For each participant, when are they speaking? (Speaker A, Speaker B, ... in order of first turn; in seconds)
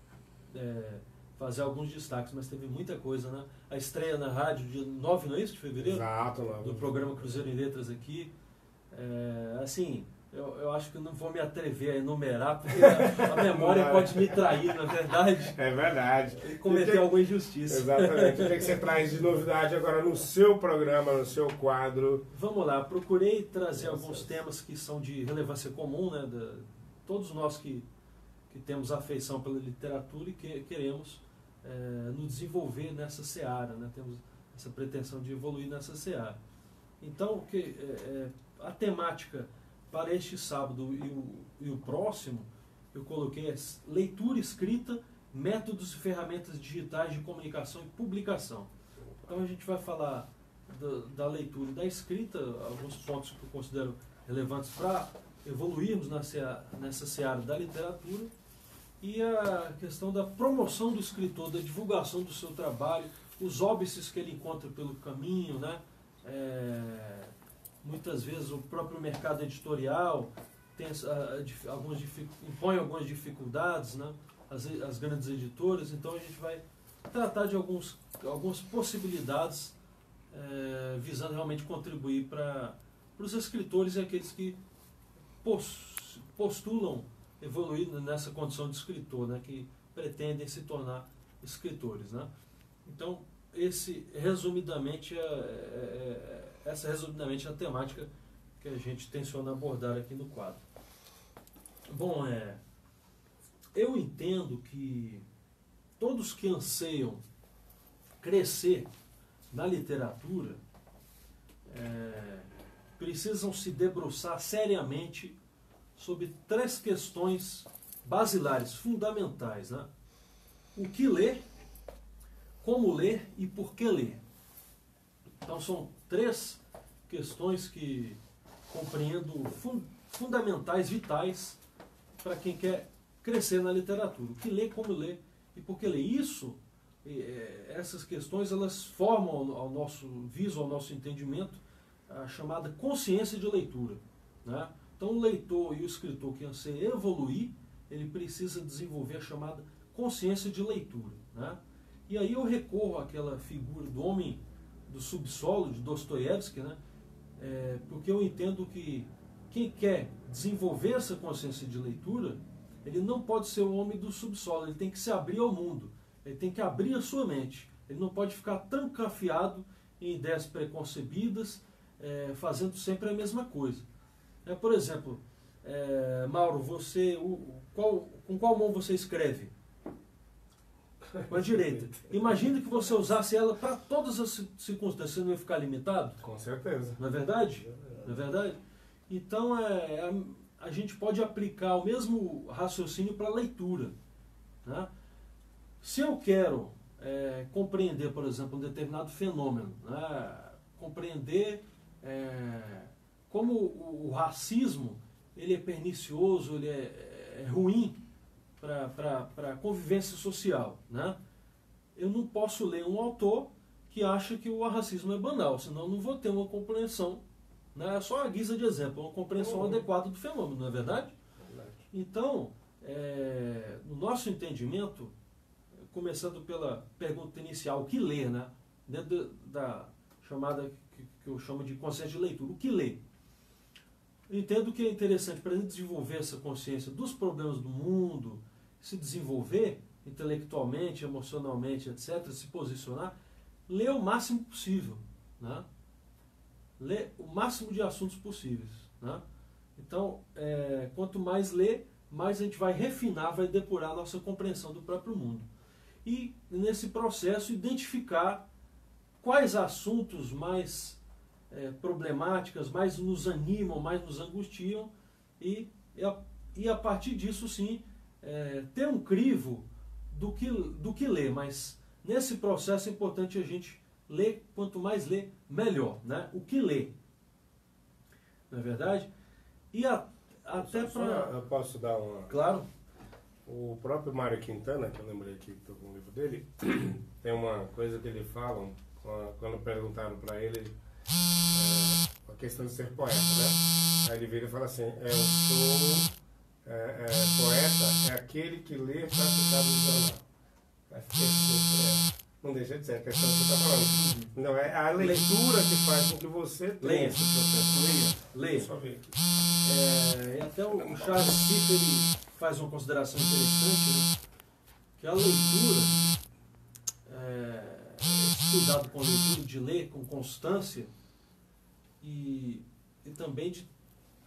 Speaker A: 0.5-8.3, 8.9-15.6, 16.4-18.8, 22.3-27.9, 28.5-36.4, 37.0-48.7, 49.3-58.3, 59.0-79.8, 80.3-84.6, 85.4-92.3, 92.8-98.1, 98.6-100.6, 101.9-102.6, 103.7-105.2, 106.0-107.2, 108.2-108.9, 109.5-110.6, 111.7-115.4, 116.0-119.9, 120.7-121.4, 122.6-124.2, 125.4-131.6, 132.2-156.8, 157.4-173.8, 174.4-179.5, 181.3-186.2, 187.0-188.6, 189.1-193.9, 194.6-194.9, 195.8-208.0, 208.6-211.2, 211.9-217.2, 217.7-221.1, 221.9-225.1, 225.9-233.0, 234.3-243.1, 243.7-245.7, 246.8-249.2, 249.8-255.5, 256.0-258.4, 259.2-276.9, 278.5-279.1, 279.7-281.3, 282.3-282.7, 303.9-304.3, 304.9-305.4, 306.8-308.7, 309.6-314.1, 315.0-316.0, 317.1-320.9, 322.0-323.7
Speaker B: 5.8-7.4, 12.7-14.5, 15.5-17.1, 17.6-22.3, 23.7-24.4, 49.0-49.5, 181.1-182.4, 186.2-187.0, 187.5-188.2, 219.3-219.8, 221.4-221.8, 280.5-282.3, 283.4-290.7, 291.5-296.1, 296.6-300.2, 300.9-307.2, 308.5-309.1, 310.7-311.3